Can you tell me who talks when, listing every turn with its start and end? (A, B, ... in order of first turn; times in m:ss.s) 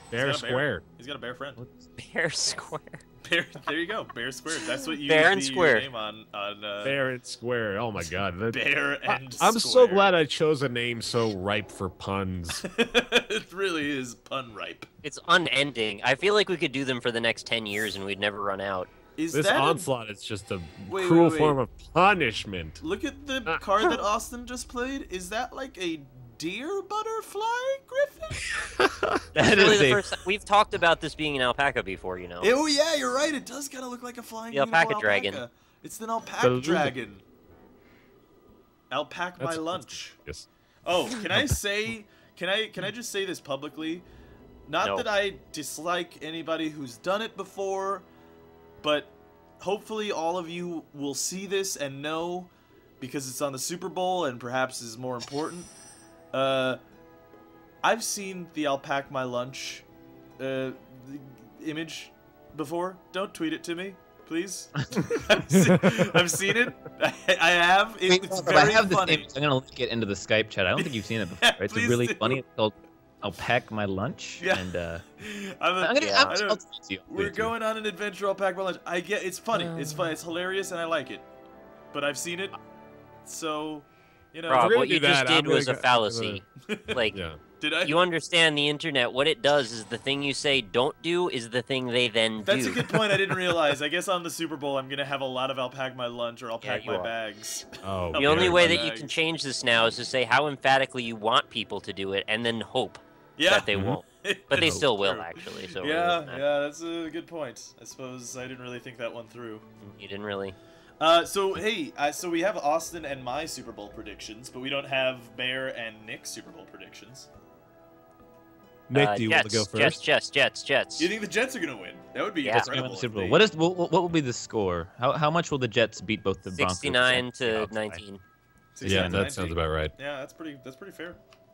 0:00.1-0:00.8 A
0:00.2-0:01.6 B
0:02.0-0:03.0 C
0:03.2-0:07.0 B
0:05.0-0:05.9 C
0:06.8-0:12.6 A
0:08.5-0:10.1 B
0:12.6-0:14.9 B
0:15.0-0:18.9 C
0:19.2-0:19.9 B
0:19.3-0:22.8 A
0:20.9-0:21.6 B
0:22.8-0:28.6 B
0:23.5-0:24.0 A
0:28.5-0:29.2 A
0:29.3-0:30.1 D
0:29.4-0:32.5 C
0:32.4-0:37.2 B
0:34.5-0:35.4 C
0:36.4-0:36.9 D
0:38.9-0:40.2 B
0:39.4-0:40.5 A
0:40.9-0:44.1 B
0:41.2-0:41.6 A
0:44.7-0:48.1 B
0:44.8-0:45.1 C
0:48.8-0:55.7 B
0:56.3-0:56.8 B
0:57.8-0:59.8 B
1:00.4-1:09.3 B
1:05.5-1:06.0 A
1:08.1-1:15.0 D
1:10.8-1:12.4 B
1:14.4-1:21.2 B
1:15.8-1:17.5 D
1:16.0-1:16.4 C
1:21.9-1:22.6 B
1:23.2-1:24.8 B
1:24.5-1:27.2 C
1:24.5-1:26.4 A
1:26.6-1:27.0 B
1:27.1-1:27.4 A
1:27.6-1:28.0 B
1:27.8-1:32.8 C
1:32.5-1:39.2 B
1:36.6-1:37.1 C
1:37.8-1:38.8 A
1:38.2-1:46.4 C
1:43.4-1:43.7 B
1:43.7-1:44.0 A
1:44.2-1:49.6 B
1:44.5-1:44.8 A
1:49.8-1:50.6 C
1:51.0-1:57.3 B
1:58.9-2:00.0 A
1:58.9-2:01.1 C
2:01.0-2:03.4 B
2:02.7-2:08.0 D
2:06.6-2:08.2 C
2:08.8-2:11.2 B
2:08.8-2:09.3 D
2:08.8-2:09.9 A